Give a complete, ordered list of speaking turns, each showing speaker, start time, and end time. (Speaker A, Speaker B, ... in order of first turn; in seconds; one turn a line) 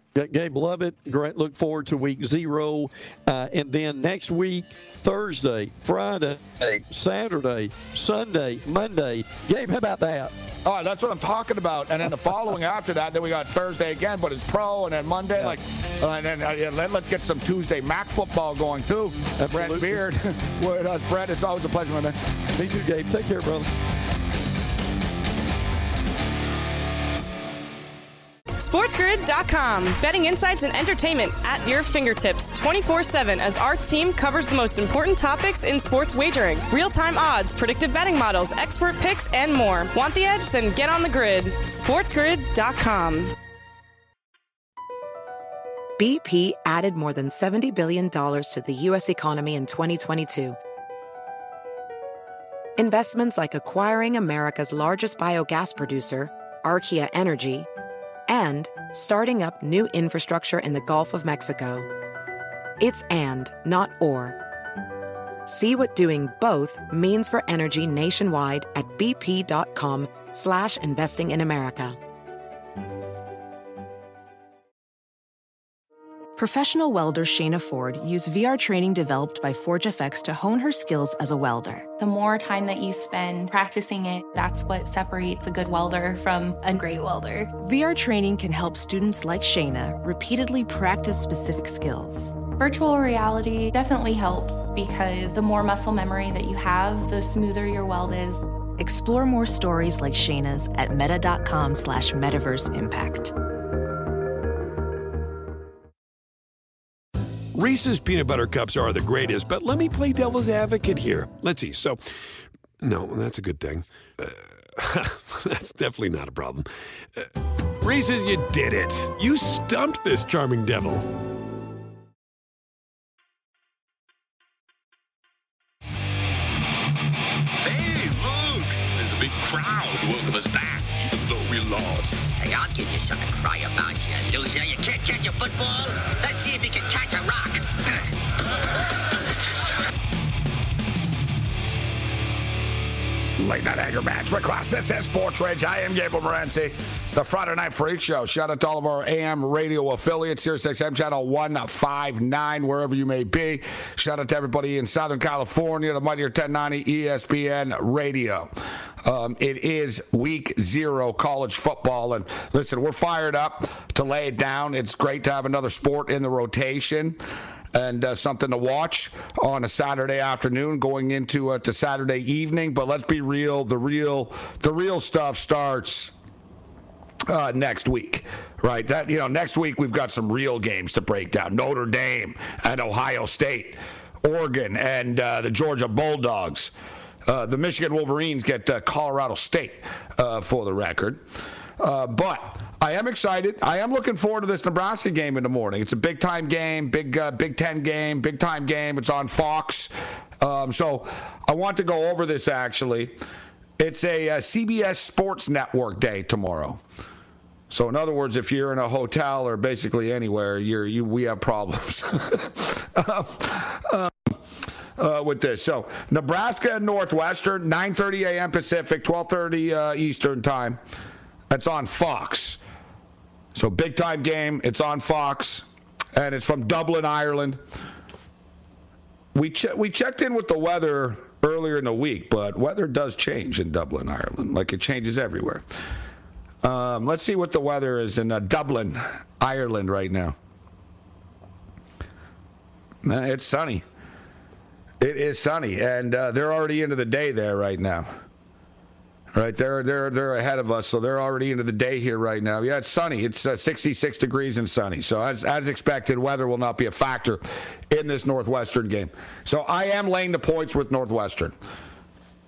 Speaker A: 0.1-10.3
Speaker B: 10.6-22.2
Speaker A: 19.4-20.0
Speaker A: 22.6-23.7
Speaker C: 28.6-43.3
Speaker D: 46.0-50.6
Speaker D: 52.8-57.7
Speaker D: 58.3-61.9
Speaker D: 62.8-64.4
Speaker D: 65.5-72.0
Speaker E: 76.4-81.9
Speaker F: 82.0-87.5
Speaker E: 87.6-92.4
Speaker F: 92.5-98.5
Speaker E: 98.8-103.3
Speaker G: 107.5-112.0
Speaker G: 112.8-117.3
Speaker G: 117.8-121.1
Speaker H: 127.6-132.3
Speaker I: 132.3-137.7
Speaker B: 143.4-158.5
Speaker B: 159.0-167.2
Speaker B: 167.7-176.1
Speaker B: 177.3-186.7
Speaker B: 187.2-191.2
Speaker B: 191.8-203.2
Speaker B: 203.8-206.8
Speaker B: 207.7-214.4
Speaker B: 215.0-220.8
Speaker B: 221.5-222.6
Speaker B: 223.5-227.6
Speaker B: 229.3-235.6
Speaker B: 236.6-240.3
Speaker B: 243.0-243.8
Speaker B: 245.0-248.1
Speaker B: 249.3-261.6